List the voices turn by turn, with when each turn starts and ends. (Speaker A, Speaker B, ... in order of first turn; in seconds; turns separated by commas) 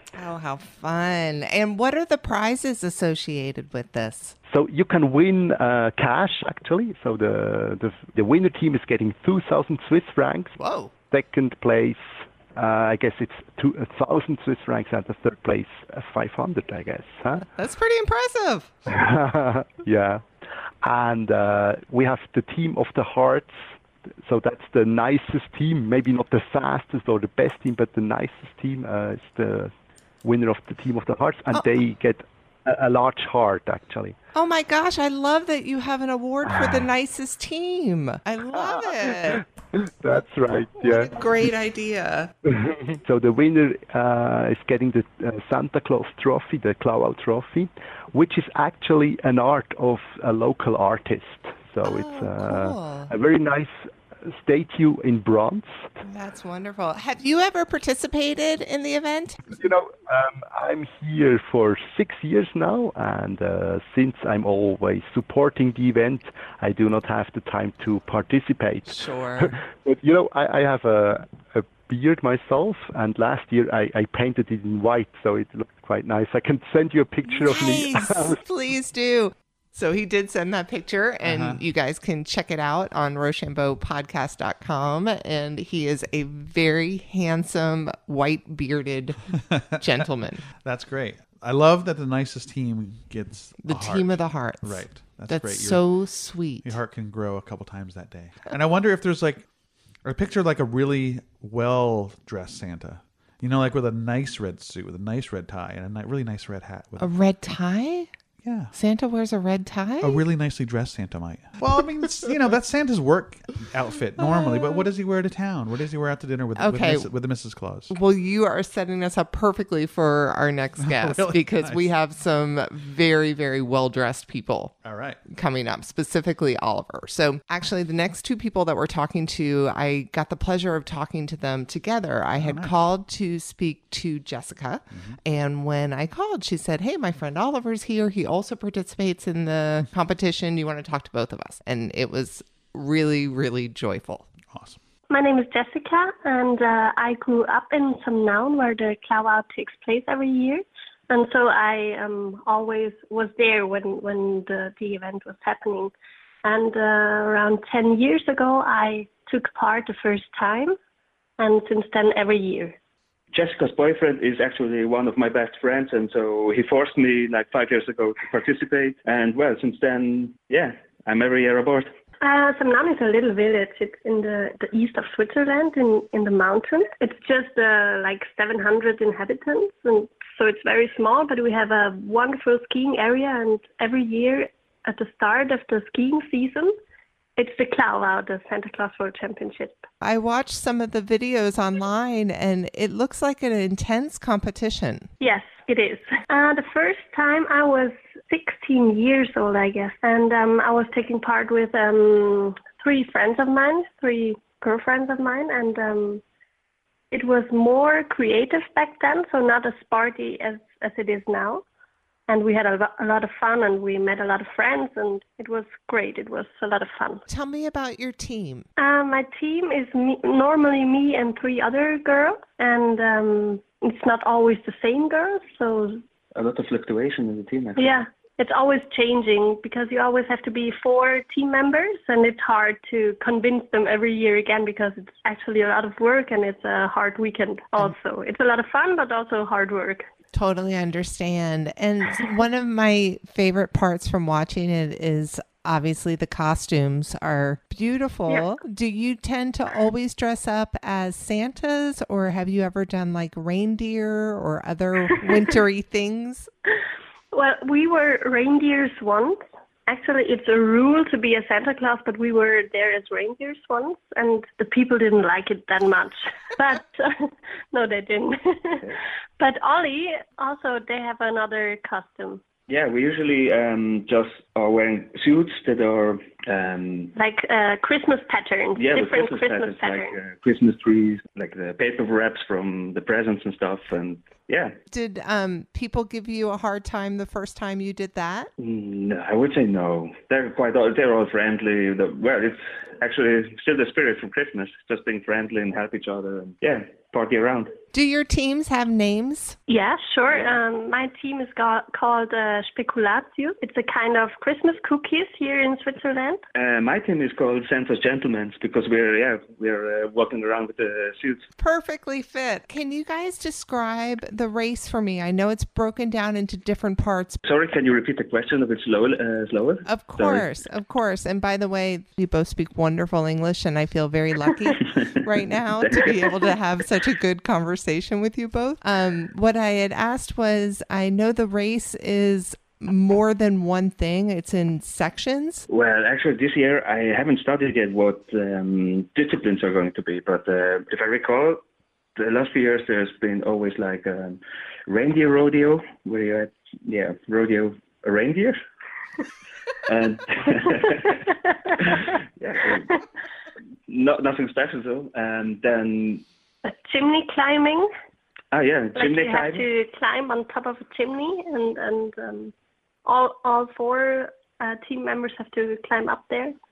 Speaker A: 0.1-4.3, Speaker B: 4.5-10.6, Speaker A: 10.6-10.9, Speaker B: 11.1-12.0, Speaker B: 12.5-17.5, Speaker A: 17.5-18.7, Speaker B: 18.9-20.2, Speaker B: 20.8-23.5, Speaker B: 24.2-34.1, Speaker A: 34.3-39.4, Speaker B: 36.5-36.8, Speaker B: 38.6-41.2, Speaker A: 40.8-42.3, Speaker B: 42.5-55.9, Speaker A: 51.8-53.1, Speaker A: 56.0-59.5, Speaker B: 59.5-78.4, Speaker A: 68.9-69.6, Speaker A: 77.2-89.2, Speaker C: 81.2-81.6, Speaker C: 89.5-89.8, Speaker A: 89.8-90.4, Speaker C: 90.6-95.8, Speaker A: 93.6-96.8, Speaker C: 96.6-99.5, Speaker C: 100.0-107.1, Speaker A: 107.0-108.1, Speaker C: 108.4-108.7, Speaker A: 108.7-110.2, Speaker C: 110.0-117.9, Speaker A: 116.6-117.1, Speaker A: 117.9-124.7, Speaker C: 120.8-121.9, Speaker C: 124.8-125.2, Speaker A: 125.2-144.3, Speaker C: 132.4-132.7, Speaker C: 144.5-144.8, Speaker D: 145.1-155.9, Speaker D: 156.4-160.8, Speaker D: 161.4-162.8, Speaker E: 163.3-171.9, Speaker D: 172.2-186.7, Speaker D: 187.4-189.8, Speaker A: 190.0-195.1, Speaker D: 195.2-206.2, Speaker D: 207.1-211.6, Speaker D: 212.3-217.2, Speaker A: 217.3-218.7, Speaker D: 218.8-226.0, Speaker E: 226.3-228.0, Speaker D: 227.8-240.1, Speaker A: 240.3-256.5, Speaker D: 257.3-268.9, Speaker D: 269.4-272.4, Speaker E: 272.7-277.1, Speaker D: 277.1-280.1, Speaker E: 278.8-284.8, Speaker A: 284.9-288.5, Speaker E: 288.6-297.7, Speaker A: 297.9-299.6, Speaker D: 299.7-306.4, Speaker E: 306.5-311.5, Speaker A: 311.6-317.4, Speaker E: 317.4-320.4, Speaker A: 319.9-335.7, Speaker E: 325.8-326.3, Speaker E: 335.7-341.6, Speaker E: 342.1-348.6, Speaker E: 349.9-351.3, Speaker E: 351.8-353.0, Speaker E: 353.9-356.2, Speaker D: 356.6-357.9, Speaker E: 358.5-359.6, Speaker D: 358.9-362.5, Speaker D: 363.0-366.5